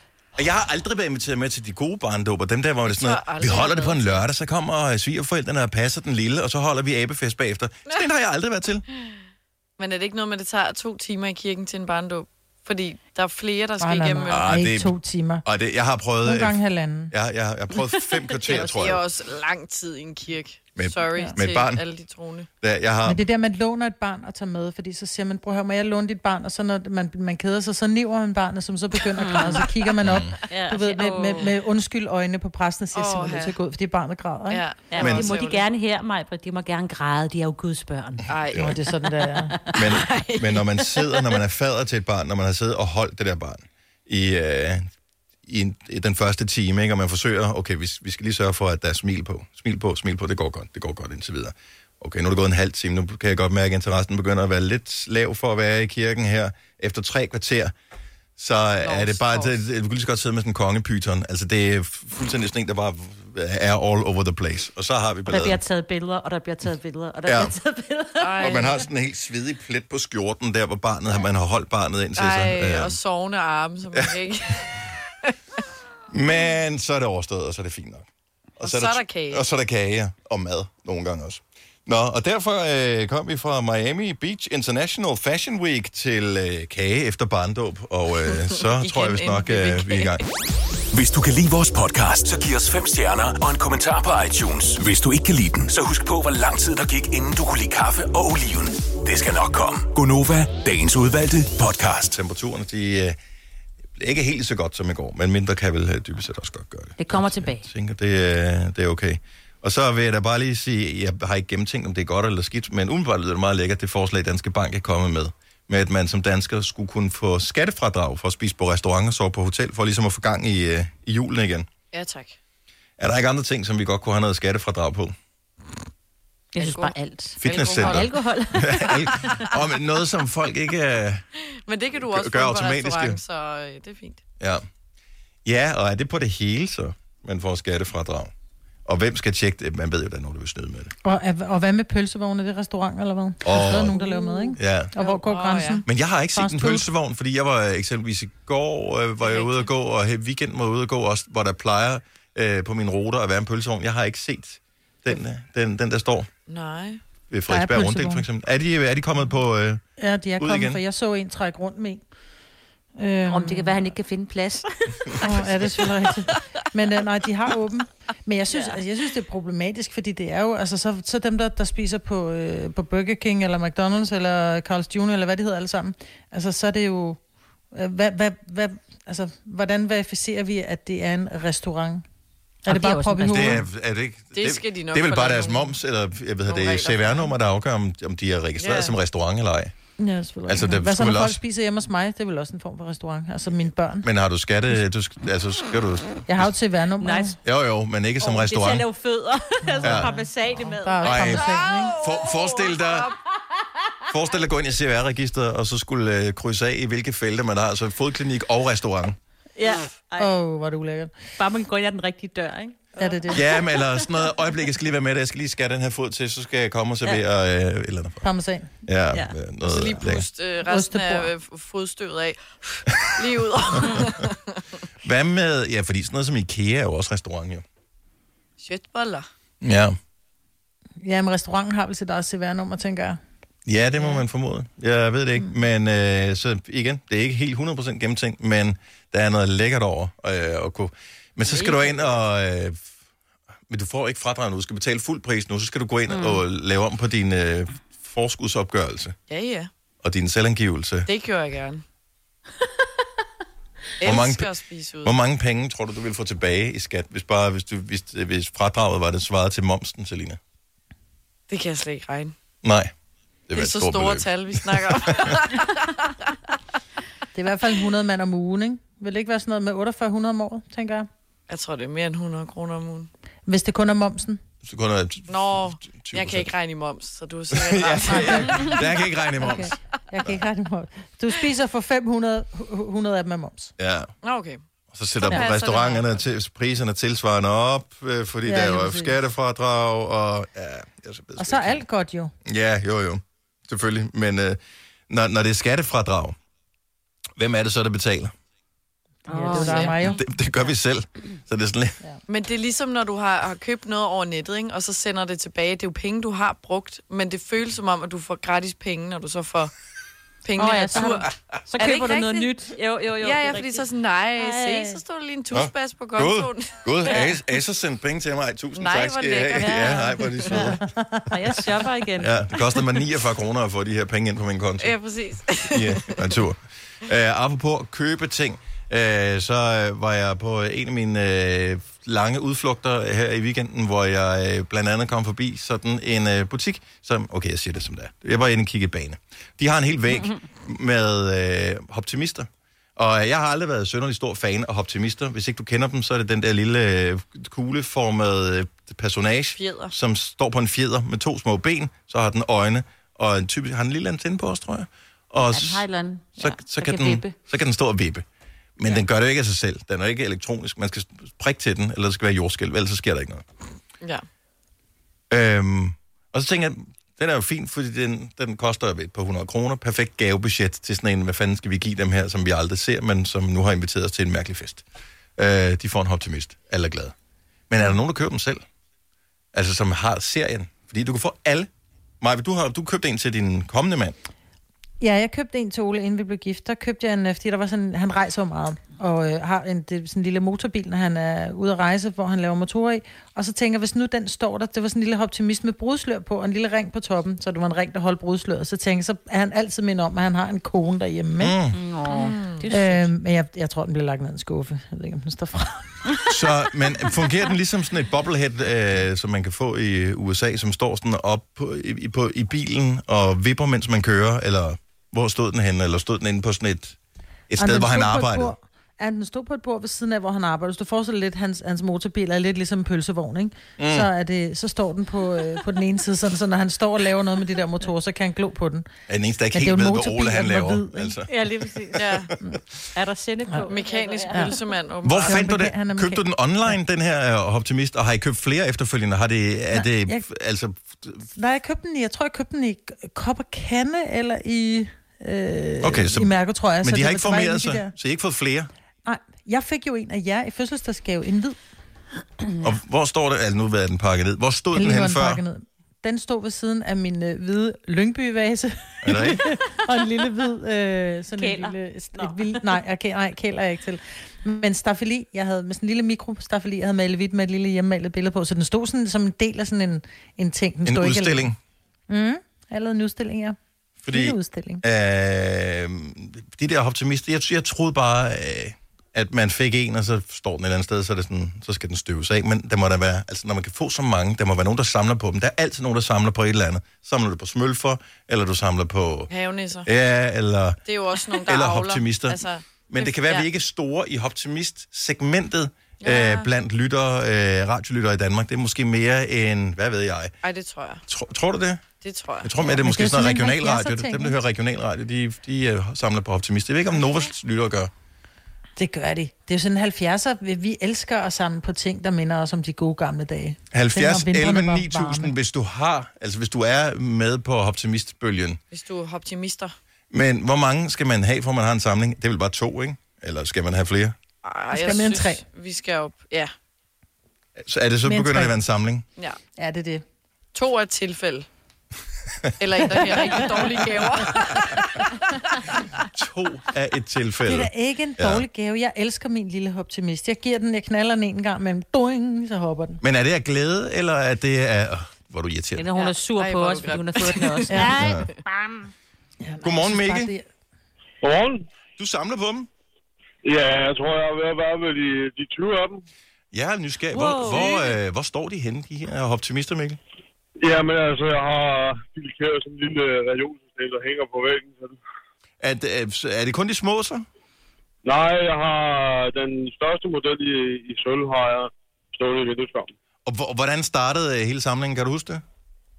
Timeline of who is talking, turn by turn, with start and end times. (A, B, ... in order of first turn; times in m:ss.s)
0:00.4-0:08.8 A
0:02.9-0:04.2 B
0:09.8-0:14.5 B
0:13.8-0:15.4 C
0:14.3-0:16.6 A
0:16.2-0:17.1 C
0:17.1-0:19.0 A
0:18.4-0:22.5 B
0:18.5-0:18.9 D
0:20.8-0:21.8 A
0:22.6-0:23.2 A
0:23.1-0:34.6 C
0:29.2-0:29.7 D
0:30.0-0:30.4 A
0:30.5-0:31.5 D
0:32.9-0:33.6 B
0:34.5-0:35.6 B
0:34.9-0:38.3 D
0:35.0-0:35.3 A
0:38.3-0:38.8 B
0:38.5-0:39.6 C
0:39.3-0:39.9 D
0:39.8-0:44.9 A
0:39.8-0:41.2 B
0:45.5-0:57.7 A
0:58.4-1:05.6 A
0:58.8-0:59.6 B
1:05.3-1:08.7 D
1:07.2-1:07.6 A
1:08.2-1:08.8 B
1:08.4-1:13.0 A
1:12.2-1:14.7 B
1:16.1-1:18.1 A
1:18.6-1:19.5 B
1:18.6-1:30.2 A
1:28.6-1:30.2 B
1:30.9-1:42.2 E
1:42.1-1:43.2 A
1:44.0-2:01.7 A
1:47.0-1:47.7 D
2:01.9-2:02.4 B
2:03.0-2:05.1 A
2:06.5-2:09.3 D
2:06.6-2:08.1 B
2:07.4-2:11.2 A
2:08.8-2:09.4 B
2:11.7-2:14.2 B
2:12.0-2:13.2 A
2:14.4-2:14.6 A
2:15.4-2:18.3 A
2:18.9-2:20.9 A
2:21.0-2:25.8 C
2:23.4-2:24.0 A
2:24.1-2:24.5 D
2:24.6-2:24.9 A
2:25.0-2:25.8 B
2:25.9-2:36.3 A
2:26.4-2:26.9 C
2:29.2-2:29.7 B
2:36.5-2:37.0 B
2:37.3-2:39.8 A
2:37.5-2:38.3 C
2:40.0-2:42.0 C
2:40.4-2:40.8 A
2:43.0-2:43.9 C
2:43.3-2:45.5 D
2:45.2-2:57.2 C
2:57.7-3:02.0 C
3:02.7-3:03.6 C
3:02.7-3:03.6 D
3:03.3-3:09.7 A
3:04.3-3:05.8 B
3:06.5-3:07.3 B
3:08.6-3:09.0 B
3:10.0-3:14.1 C
3:10.5-3:11.4 A
3:14.0-3:16.5 A
3:16.3-3:17.4 C
3:17.0-3:17.4 D
3:17.4-3:18.9 A
3:18.2-3:21.4 D
3:19.7-3:22.0 C
3:19.8-3:20.1 A
3:21.0-3:23.1 A
3:21.7-3:23.2 B
3:24.1-3:29.2 A
3:29.6-3:30.3 D
3:30.2-3:31.1 C
3:31.4-3:33.0 D
3:33.0-3:33.5 C
3:33.3-3:38.2 A
3:33.6-3:34.0 D
3:38.2-3:38.7 C
3:38.9-3:40.3 A
3:39.6-3:44.6 B
3:40.7-3:41.3 C
3:43.8-3:44.1 A
3:43.8-3:44.1 D
3:45.0-3:47.6 A
3:48.6-3:49.3 B
3:49.6-3:50.0 A
3:51.0-3:53.2 C
3:53.7-4:02.8 A
4:01.4-4:02.2 B
4:03.7-4:09.2 A
4:06.1-4:06.4 D
4:09.3-4:09.7 B
4:10.0-4:11.1 A
4:11.1-4:11.8 B
4:14.0-4:15.2 B
4:14.0-4:14.5 A
4:15.0-4:20.4 A
4:21.5-4:22.4 B
4:22.6-4:22.9 A
4:23.5-4:25.4 A
4:23.6-4:26.1 B
4:27.4-4:31.1 C
4:31.5-4:33.1 B
4:33.5-4:34.4 C
4:34.6-4:36.5 A
4:35.3-4:38.9 B
4:37.5-4:40.4 A
4:38.1-4:38.8 C
4:39.4-4:43.7 C
4:43.8-4:44.1 A
4:44.2-4:44.6 B
4:44.9-4:51.8 A
4:45.2-4:46.2 B
4:48.4-4:49.2 C
4:51.4-4:52.3 C
4:52.4-4:54.6 A
4:55.1-4:56.4 A
4:57.4-4:58.3 A
4:59.3-5:00.2 D
4:59.3-5:00.2 C
4:59.6-5:00.0 B
5:00.1-5:02.0 A
5:02.3-5:09.7 B
5:10.4-5:12.5 B
5:10.6-5:15.0 D
5:10.6-5:11.1 C
5:13.2-5:17.2 B
5:15.5-5:20.8 A
5:18.8-5:20.6 B
5:19.6-5:20.8 D
5:20.8-5:21.3 C
5:21.3-5:22.4 D
5:22.2-5:25.0 A
5:24.8-5:26.2 B
5:25.6-5:55.8 A
5:49.6-5:49.9 B
5:55.4-5:57.4 D
5:56.4-5:58.2 A
5:58.8-6:03.4 A
6:05.3-6:14.8 A
6:15.4-6:17.1 A
6:17.7-6:18.6 A
6:19.5-6:21.7 A
6:22.2-6:24.2 A
6:25.0-6:41.5 C
6:41.4-6:41.8 A
6:41.7-6:43.1 D
6:42.1-6:42.7 B
6:42.7-6:45.9 C
6:46.3-6:57.0 A
6:57.5-6:58.5 A
6:57.6-7:08.9 C
7:03.8-7:04.1 A
7:09.1-7:12.2 A
7:09.5-7:11.2 C
7:11.3-7:12.3 D
7:12.0-7:12.3 B
7:13.0-7:14.6 D
7:13.7-7:15.4 B
7:14.3-7:14.6 C
7:15.0-7:21.3 A
7:15.2-7:16.2 C
7:19.7-7:20.2 C
7:21.4-7:27.9 C
7:25.8-7:28.7 A
7:29.1-7:31.6 C
7:32.6-7:35.4 A
7:34.7-7:51.5 C
7:39.0-7:39.4 A
7:41.4-7:42.8 D
7:50.8-7:51.6 A
7:52.1-7:53.6 C
7:54.0-8:09.3 A
7:54.1-7:54.8 C
8:09.3-8:09.9 B
8:09.8-8:10.8 A
8:10.9-8:13.5 B
8:11.4-8:12.4 A
8:12.9-8:20.3 A
8:16.0-8:16.5 B
8:20.4-8:21.0 B
8:21.1-8:21.8 A
8:22.0-8:22.8 B
8:22.4-8:27.9 A
8:22.8-8:24.4 C
8:28.8-8:35.3 C
8:33.7-8:38.6 A
8:38.7-8:39.7 B
8:40.1-8:44.2 A
8:44.4-8:46.5 B
8:44.7-8:45.4 C
8:47.6-8:49.0 A
8:48.0-8:48.6 C
8:49.6-8:50.0 C
8:50.5-8:51.5 B
8:52.6-8:54.7 B
8:56.1-8:58.4 A
8:57.5-9:03.0 C
9:03.0-9:05.9 A
9:05.8-9:08.9 D
9:06.0-9:08.1 B
9:07.7-9:08.0 C
9:08.0-9:08.3 A
9:09.4-9:10.5 C
9:09.6-9:10.3 A
9:11.2-9:11.7 F
9:12.0-9:12.7 A
9:13.4-9:16.0 F
9:16.5-9:20.0 A
9:17.1-9:18.0 D
9:20.6-9:25.0 F
9:25.6-9:27.3 A
9:28.0-9:32.9 F
9:33.3-9:35.4 A